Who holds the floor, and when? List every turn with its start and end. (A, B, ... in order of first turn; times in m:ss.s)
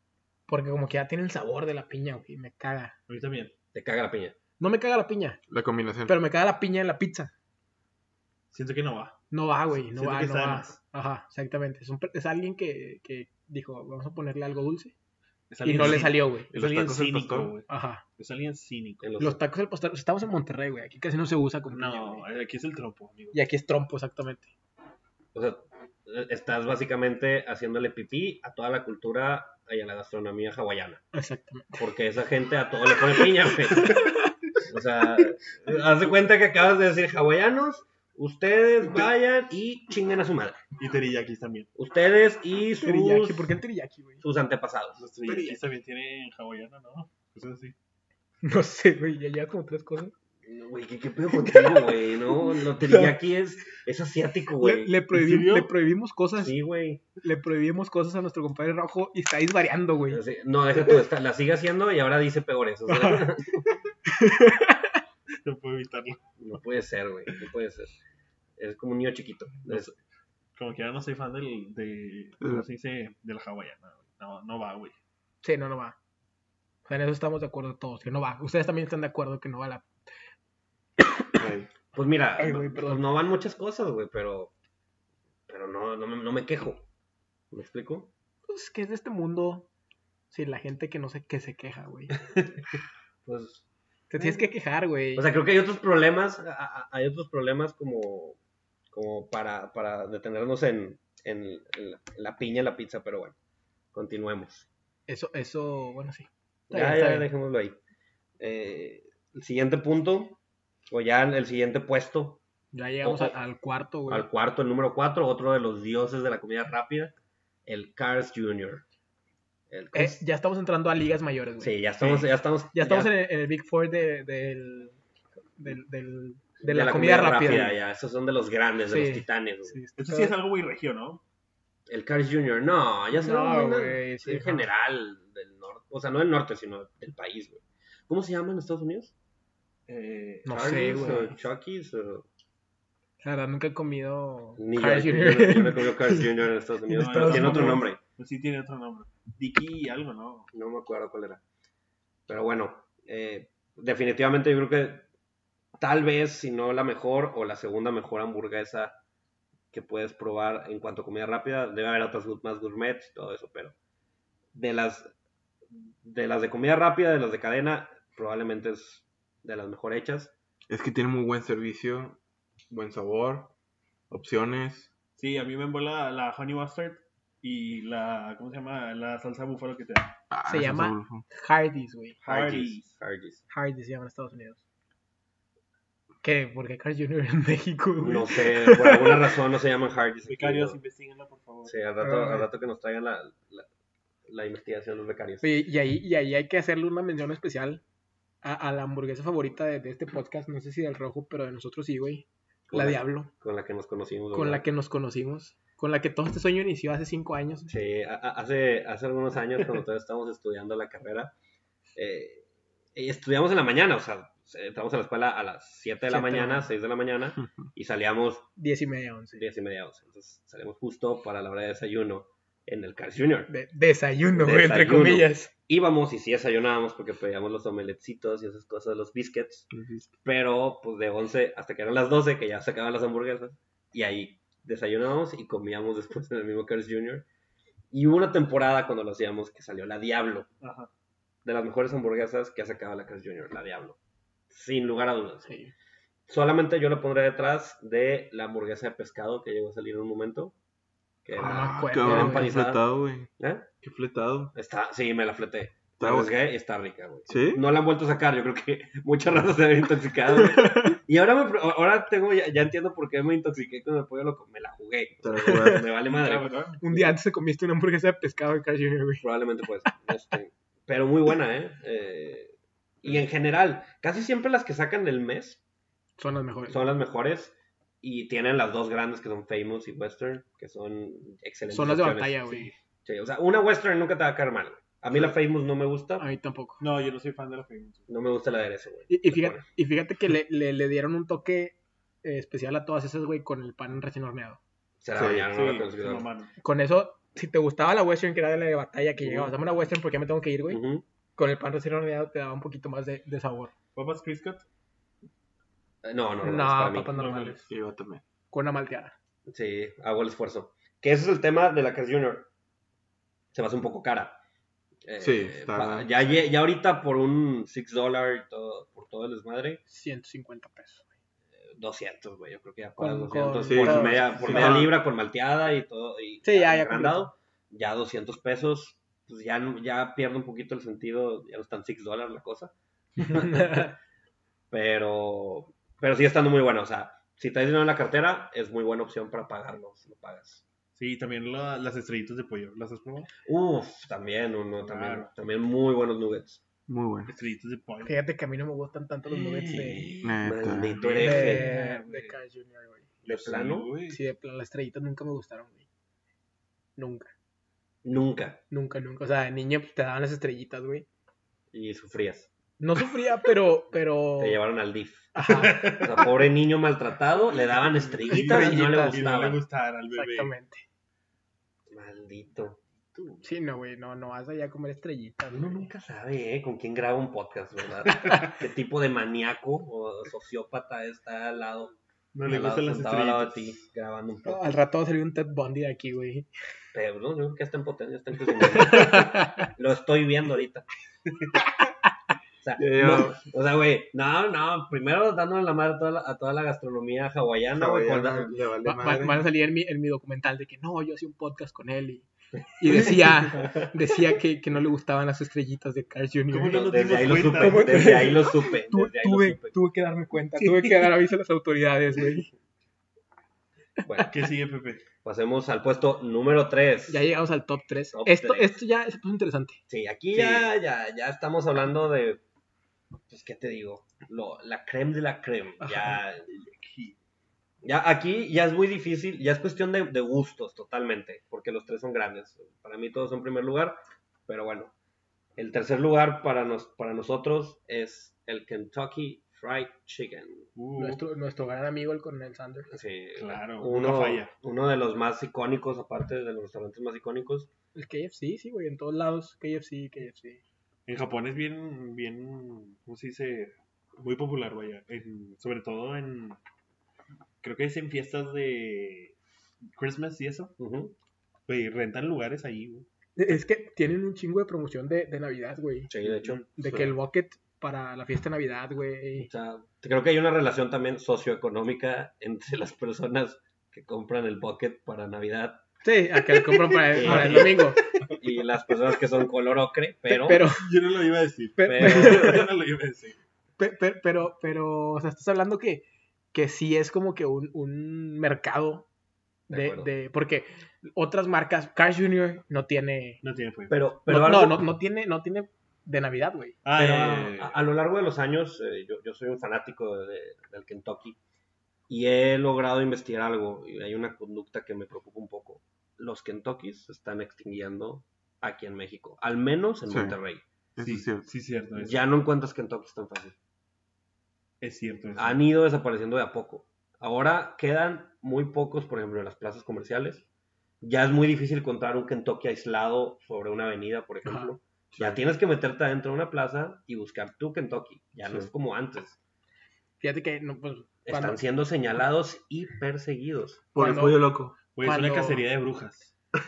0:00.5-0:02.9 A
0:03.1-0:03.5 B
0:03.7-0:04.4 C
0:04.6-0:05.4 A
0:05.5-0:06.2 D
0:06.0-0:07.3 A
0:08.5-0:09.2 B
0:09.3-0:14.9 A
0:09.8-0:10.8 B
0:15.5-0:19.0 B
0:15.6-0:16.5 A
0:15.8-0:17.5 D
0:17.7-0:18.0 A
0:19.0-0:19.4 C
0:19.2-0:22.3 A
0:21.7-0:23.4 B
0:23.3-0:24.5 A
0:25.3-0:31.0 C
0:31.1-0:31.8 A
0:31.8-0:34.1 C
0:33.8-0:34.3 A
0:34.6-0:40.6 C
0:40.8-0:41.7 B
0:41.8-0:43.5 C
0:42.8-0:44.2 A
0:44.2-0:45.0 C
0:45.0-0:47.8 B
0:45.3-0:45.6 A
0:48.4-0:50.1 A
0:50.4-0:55.0 C
0:51.3-0:53.2 A
0:54.6-0:56.6 A
0:55.1-0:55.7 B
0:56.4-0:57.0 C
0:57.2-1:00.2 A
1:00.1-1:03.7 C
1:02.9-1:03.3 A
1:04.1-1:04.9 A
1:05.4-1:06.2 B
1:06.4-1:07.9 C
1:08.6-1:09.9 C
1:09.7-1:10.0 B
1:10.6-1:15.0 B
1:15.4-1:16.0 A
1:16.9-1:19.9 A
1:21.4-1:21.7 D
1:21.9-1:24.5 C
1:22.4-1:23.1 A
1:25.5-1:26.9 C
1:27.5-1:28.1 C
1:28.5-1:29.7 A
1:30.3-1:32.1 A
1:33.2-1:33.6 C
1:34.1-1:35.3 A
1:34.2-1:34.5 C
1:35.2-1:38.4 C
1:38.9-1:43.4 C
1:43.9-1:44.7 C
1:45.1-1:47.3 A
1:46.7-1:47.8 C
1:48.4-1:50.4 C
1:50.9-1:52.4 C
1:52.7-1:54.3 A
1:53.0-1:53.4 C
1:54.1-1:57.1 C
1:57.7-1:58.8 C
1:59.7-2:00.2 C
1:59.9-2:01.8 A
2:01.6-2:03.1 C
2:02.0-2:02.3 B
2:02.7-2:05.0 A
2:05.6-2:07.8 A
2:06.6-2:09.8 C
2:08.9-2:10.4 A
2:10.0-2:11.2 B
2:11.9-2:19.1 C
2:13.1-2:14.7 A
2:19.9-2:21.2 B
2:20.4-2:21.4 A
2:20.5-2:22.3 C
2:23.2-2:26.3 A
2:24.6-2:28.0 C
2:26.9-2:27.9 A
2:26.9-2:30.5 B
2:30.5-2:31.4 C
2:32.3-2:35.0 C
2:35.8-2:39.0 C
2:39.7-2:43.7 C
2:44.5-2:45.1 C
2:46.0-2:50.3 C
2:50.7-2:52.2 D
2:52.7-2:53.5 D
2:54.1-2:54.9 D
2:55.2-3:00.2 B
3:00.3-3:01.2 D
3:00.5-3:02.2 A
3:02.2-3:03.0 B
3:02.2-3:03.4 C
3:03.5-3:04.6 A
3:06.2-3:09.4 A
3:08.0-3:10.8 C
3:10.3-3:11.7 B
3:11.6-3:13.7 C
3:12.0-3:12.5 A
3:14.3-3:15.4 C
3:15.4-3:17.8 A
3:18.4-3:23.3 A
3:22.7-3:24.6 C
3:24.3-3:27.7 A
3:27.7-3:31.3 C
3:32.0-3:38.5 C
3:36.1-3:36.7 A
3:38.6-3:39.4 A
3:39.3-3:43.5 C
3:43.5-3:45.5 A
3:44.4-3:49.7 C
3:49.7-3:50.1 D
3:50.2-3:57.3 C
3:57.9-4:00.5 C
4:00.6-4:00.9 B
4:01.4-4:04.0 C
4:04.5-4:05.5 C
4:05.4-4:05.7 A
4:06.3-4:10.6 C
4:11.2-4:12.8 C
4:11.4-4:12.5 A
4:11.4-4:13.3 D
4:13.4-4:13.7 C
4:13.8-4:14.5 D
4:14.5-4:27.0 C
4:16.0-4:16.3 D
4:17.3-4:17.6 D
4:20.5-4:21.0 A
4:25.2-4:25.9 D
4:25.4-4:25.8 A
4:26.0-4:26.8 B
4:26.8-4:29.3 A
4:29.2-4:35.6 C
4:36.2-4:36.8 A
4:36.7-4:42.4 C
4:41.7-4:42.7 A
4:42.5-4:42.7 B
4:43.0-4:46.2 C
4:46.2-4:46.8 A
4:46.8-4:48.1 B
4:48.1-4:49.6 C
4:49.1-4:54.6 A
4:55.0-4:56.3 C
4:55.1-4:55.5 D
4:55.5-4:56.5 B
4:56.6-5:00.8 A
4:59.2-4:59.5 C
5:00.7-5:01.0 C
5:01.4-5:03.7 A
5:04.0-5:04.6 B
5:06.0-5:07.1 C
5:06.4-5:07.6 A
5:07.1-5:07.7 B
5:07.7-5:08.2 D
5:08.5-5:09.1 A
5:09.5-5:12.5 C
5:13.5-5:14.4 C
5:15.0-5:19.8 C
5:15.2-5:16.5 D
5:19.9-5:21.1 A
5:21.7-5:33.9 C
5:23.0-5:24.8 A
5:23.6-5:25.0 D
5:24.4-5:24.8 B
5:26.4-5:27.3 A
5:33.2-5:33.9 A
5:34.7-5:40.6 C
5:41.0-5:43.3 B
5:43.5-5:46.6 C
5:44.8-5:45.3 B
5:46.9-5:47.3 D
5:47.3-5:48.2 B
5:48.0-5:50.1 A
5:49.3-5:52.4 B
5:50.2-5:51.0 D
5:50.4-5:51.7 C
5:51.2-5:53.1 A
5:53.2-5:53.9 C
5:53.2-5:54.2 B
5:54.1-5:55.8 A
5:57.0-5:57.3 A
5:58.0-5:58.6 C
5:58.7-6:01.1 A
6:01.7-6:02.5 C
6:02.8-6:04.6 A
6:04.4-6:09.6 C
6:05.4-6:05.9 A
6:05.5-6:06.4 B
6:07.5-6:10.5 B
6:08.3-6:09.3 A
6:10.1-6:10.8 A
6:11.9-6:12.8 C
6:13.1-6:13.4 B
6:13.4-6:15.9 A
6:15.5-6:24.7 C
6:18.2-6:18.5 B
6:22.3-6:23.8 B
6:24.5-6:26.5 A
6:26.9-6:30.9 C
6:28.8-6:29.7 A
6:32.6-6:38.6 C
6:32.8-6:33.4 D
6:37.7-6:39.4 D
6:38.8-6:46.9 A
6:42.8-6:43.8 C
6:46.5-6:48.5 B
6:46.7-6:49.8 C
6:47.4-6:52.5 A
6:54.0-6:54.3 C
6:54.3-6:55.0 B
6:55.2-6:57.3 C
6:57.1-6:59.8 A
6:58.1-6:58.8 C
6:59.9-7:02.4 C
7:00.3-7:00.7 B
7:03.3-7:06.5 C
7:06.5-7:07.2 B
7:07.8-7:15.0 C
7:15.6-7:20.7 C
7:20.8-7:21.2 B
7:21.0-7:22.9 A
7:22.9-7:27.7 C
7:23.4-7:24.5 B
7:28.0-7:30.6 A
7:31.1-7:36.6 B
7:37.6-7:39.4 B
7:40.0-7:40.8 B
7:40.8-7:41.2 C
7:41.7-7:43.1 B
7:43.4-7:46.1 A
7:46.1-7:46.7 C
7:46.2-7:46.7 B
7:46.8-7:49.5 A
7:49.5-7:55.8 C
7:56.0-7:58.0 A
7:57.1-7:58.4 B
7:57.1-8:00.7 C
8:00.3-8:00.8 A
8:00.7-8:03.4 B
8:01.8-8:02.7 A
8:01.8-8:02.7 C
8:03.8-8:09.1 A
8:09.7-8:10.1 C
8:09.7-8:13.4 A
8:13.4-8:14.0 B
8:13.9-8:14.8 C
8:14.3-8:16.8 A
8:16.8-8:17.8 B
8:17.0-8:21.4 C
8:22.1-8:30.6 C
8:30.1-8:30.4 D
8:31.0-8:31.4 D
8:31.0-8:32.2 B
8:32.0-8:33.6 C
8:34.8-8:35.6 B
8:35.4-8:40.5 C
8:41.0-8:49.4 C
8:44.4-8:44.7 A
8:45.1-8:45.4 D
8:48.4-8:48.7 D
8:50.2-8:51.6 A
8:51.3-8:53.9 C
8:54.0-8:54.8 D
8:54.0-8:55.6 A
8:55.0-8:56.3 B